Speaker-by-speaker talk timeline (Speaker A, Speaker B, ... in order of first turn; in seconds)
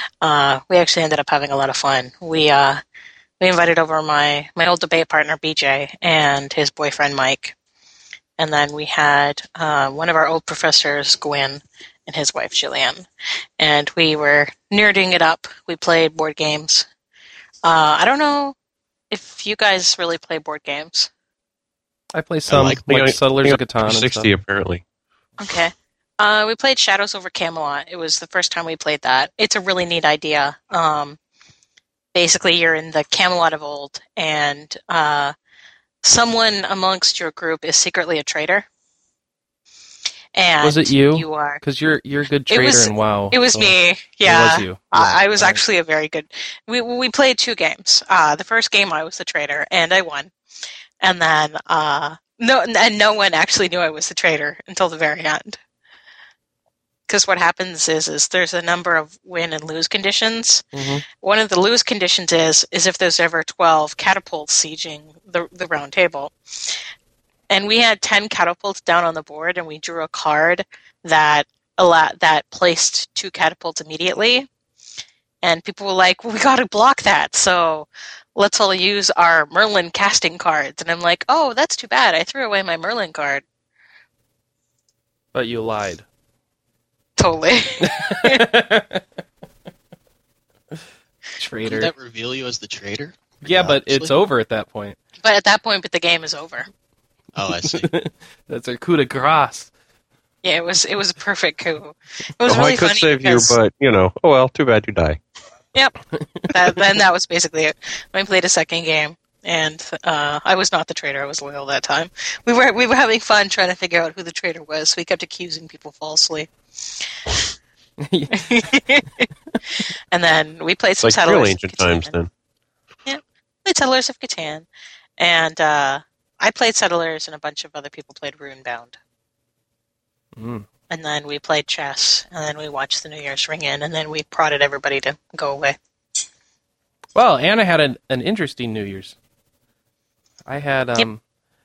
Speaker A: 0.2-2.8, 3.4-7.5, 8.4-13.1, 13.6-16.9, 17.6-18.6, 19.1-21.1, 25.4-31.2, 32.1-35.3, 36.0-38.6, 40.3-41.6, 42.5-50.3, 51.0-55.6, 57.1-66.8, 67.5-74.5, 75.4-83.4, 87.2-88.4, 95.2-96.7, 100.4-103.5, 106.5-117.1, 118.3-122.1, 123.1-124.7, 125.2-129.0, 130.9-135.8
Speaker B: 22.1-24.3, 40.6-45.6, 60.7-61.0, 85.3-86.0, 87.8-89.0, 91.4-91.9, 93.4-95.0, 97.5-99.7, 118.0-118.7, 130.4-130.7, 137.1-139.2, 140.5-141.2
Speaker C: 22.5-23.2, 91.6-94.1, 97.3-97.9
Speaker D: 22.9-24.8, 102.5-105.2, 121.0-122.3